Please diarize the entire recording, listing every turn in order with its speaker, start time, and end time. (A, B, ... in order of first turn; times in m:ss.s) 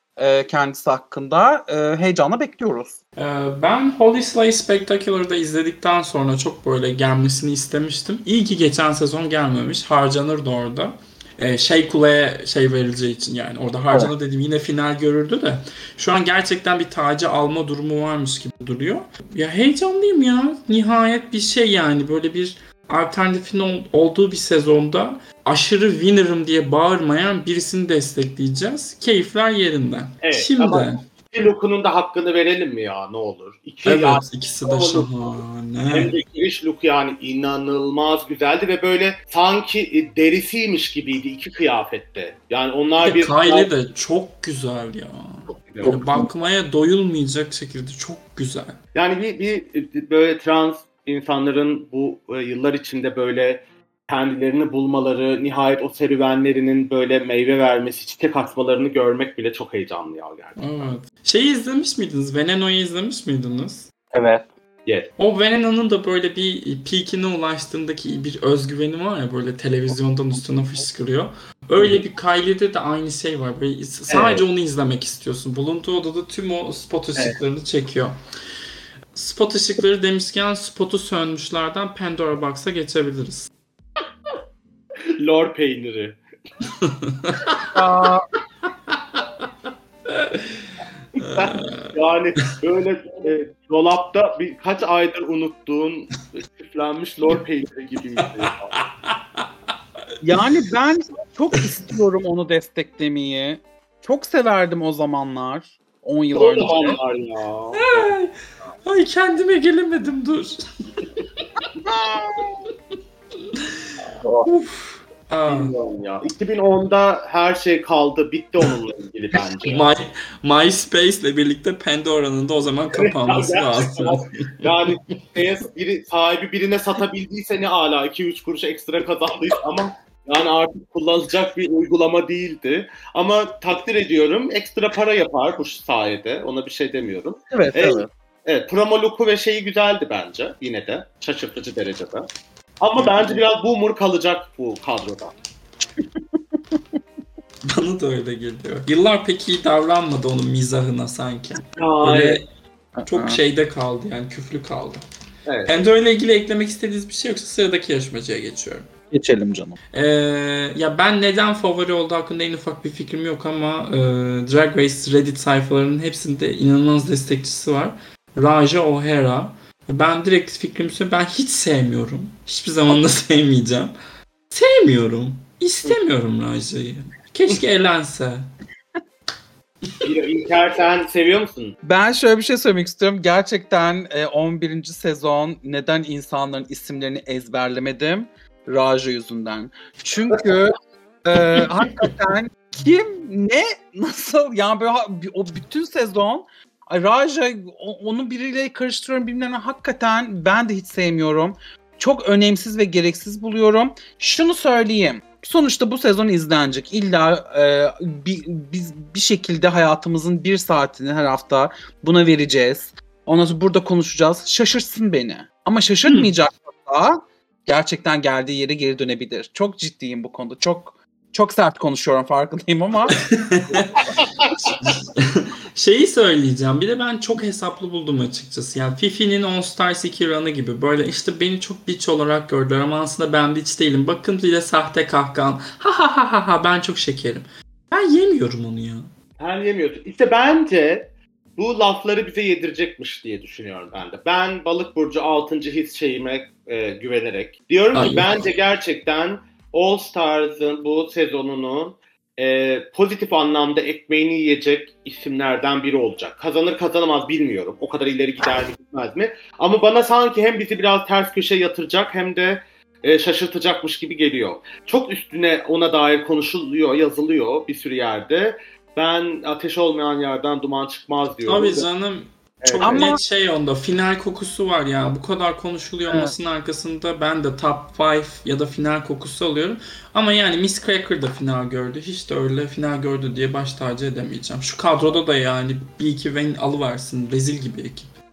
0:00.2-0:03.0 A
0:03.2-0:31.0 B
0:30.2-0:35.4 C
0:33.8-0:36.1 B
0:35.9-0:43.7 C
0:43.0-0:48.8 B
0:45.5-0:46.1 C
0:45.8-0:46.2 A
0:48.9-1:00.9 C
1:00.6-1:03.9 B
1:04.1-1:04.4 A
1:05.2-1:18.1 B
1:14.1-1:14.4 C
1:19.1-1:23.5 B
1:25.2-1:26.2 C
1:26.7-1:27.6 B
1:27.7-1:28.2 A
1:28.9-1:29.3 B
1:30.1-1:30.5 B
1:31.2-1:31.9 B
1:31.2-1:38.8 C
1:38.2-1:39.4 B
1:40.2-1:47.0 A
1:46.3-1:48.1 C
1:47.7-1:48.3 B
1:48.8-1:50.6 B
1:54.2-1:54.5 A
1:54.4-1:55.7 B
1:55.5-1:59.8 C
1:59.6-2:04.9 B
2:02.9-2:22.2 C
2:17.5-2:18.1 A
2:22.8-2:25.3 C
2:27.7-2:32.4 B
2:31.8-2:32.4 C
2:33.0-2:33.4 A
2:33.1-2:35.0 B
2:35.4-2:35.8 C
2:35.7-2:38.8 B
2:39.1-2:39.8 A
2:39.9-2:53.9 B
2:54.5-2:58.4 B
3:00.0-3:01.8 C
3:01.8-3:43.2 A
3:43.3-3:43.9 B
3:44.2-3:44.5 C
3:44.8-3:59.1 B
3:59.4-4:31.9 C
4:07.9-4:08.5 B
4:31.4-4:48.1 B
4:32.6-4:33.1 C
4:32.8-4:33.2 A
4:36.1-4:36.3 A